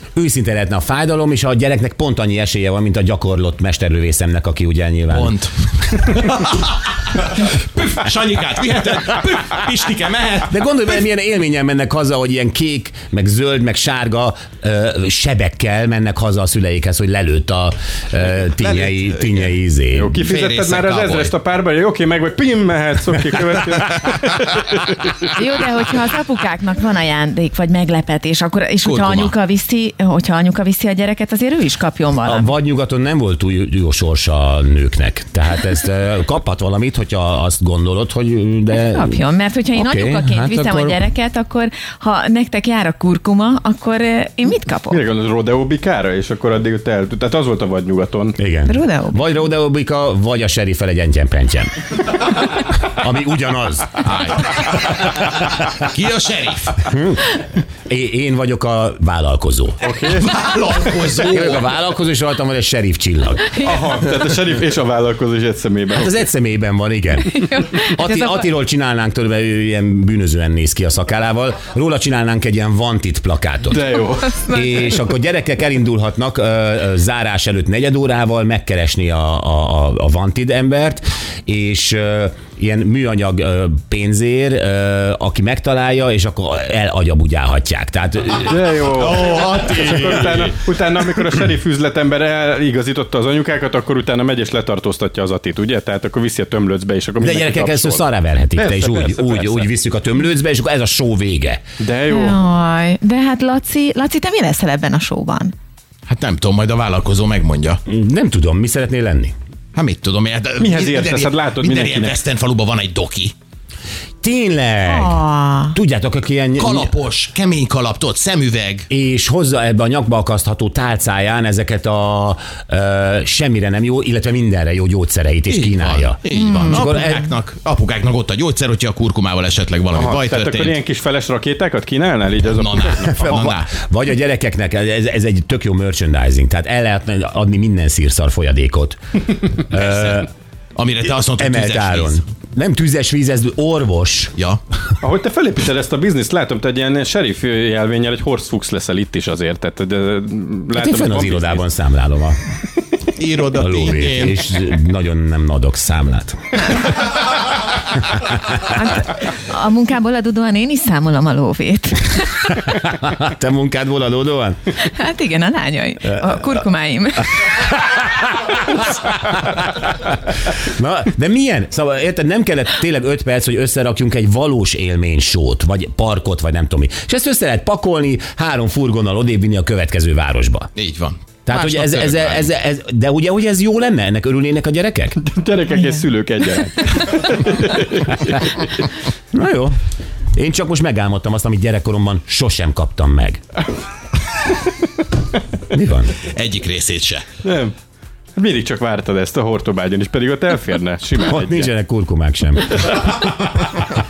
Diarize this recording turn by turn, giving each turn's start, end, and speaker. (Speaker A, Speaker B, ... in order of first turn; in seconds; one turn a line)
Speaker A: 0.1-5.4
Speaker B: 5.1-10.6
Speaker A: 10.5-20.1
Speaker B: 18.8-19.4
Speaker C: 19.9-25.3
Speaker B: 20.2-21.3
Speaker D: 25.3-32.5
Speaker B: 28.8-29.3
Speaker A: 32.2-39.2
Speaker D: 38.7-45.0
Speaker A: 39.7-41.0
Speaker C: 44.9-48.4
Speaker A: 48.4-54.0
Speaker D: 48.7-49.2
Speaker B: 54.0-56.9
Speaker A: 55.4-55.7
Speaker A: 56.9-57.3
Speaker A: 57.9-59.8
Speaker C: 59.8-60.3
Speaker B: 60.1-61.7
Speaker A: 61.2-63.6
Speaker C: 63.6-66.2
Speaker A: 65.9-73.8
Speaker D: 67.3-68.5
Speaker C: 73.7-74.6
Speaker A: 74.4-88.7
Speaker C: 88.4-98.0
Speaker B: 89.2-90.5
Speaker A: 97.2-101.6
Speaker C: 98.5-99.7
Speaker C: 101.8-102.4
Speaker D: 102.1-105.5
Speaker B: 106.1-107.8
Speaker A: 107.9-109.3
Speaker B: 109.7-113.3
Speaker C: 110.6-112.2
Speaker A: 114.2-116.9
Speaker D: 114.8-115.8
Speaker B: 116.6-118.9
Speaker A: 118.9-127.0
Speaker B: 125.5-130.8
Speaker D: 126.3-127.1
Speaker C: 129.9-133.2
Speaker B: 132.5-133.7
Speaker A: 133.1-140.3
Speaker B: 139.7-142.2
Speaker A: 141.3-144.3
Speaker C: 145.0-151.6
Speaker A: 150.7-152.4
Speaker B: 153.2-154.4
Speaker A: 153.6-156.8
Speaker D: 158.6-162.6
Speaker A: 162.6-164.6
Speaker D: 164.8-167.5
Speaker A: 167.8-180.7
Speaker B: 180.8-182.5
Speaker A: 181.4-185.2
Speaker C: 185.2-188.7
Speaker A: 189.3-189.7
Speaker A: 190.3-193.4
Speaker A: 195.7-196.1
Speaker B: 196.3-197.2
Speaker C: 197.4-197.7
Speaker C: 198.3-201.7
Speaker A: 201.2-202.9
Speaker C: 202.7-203.9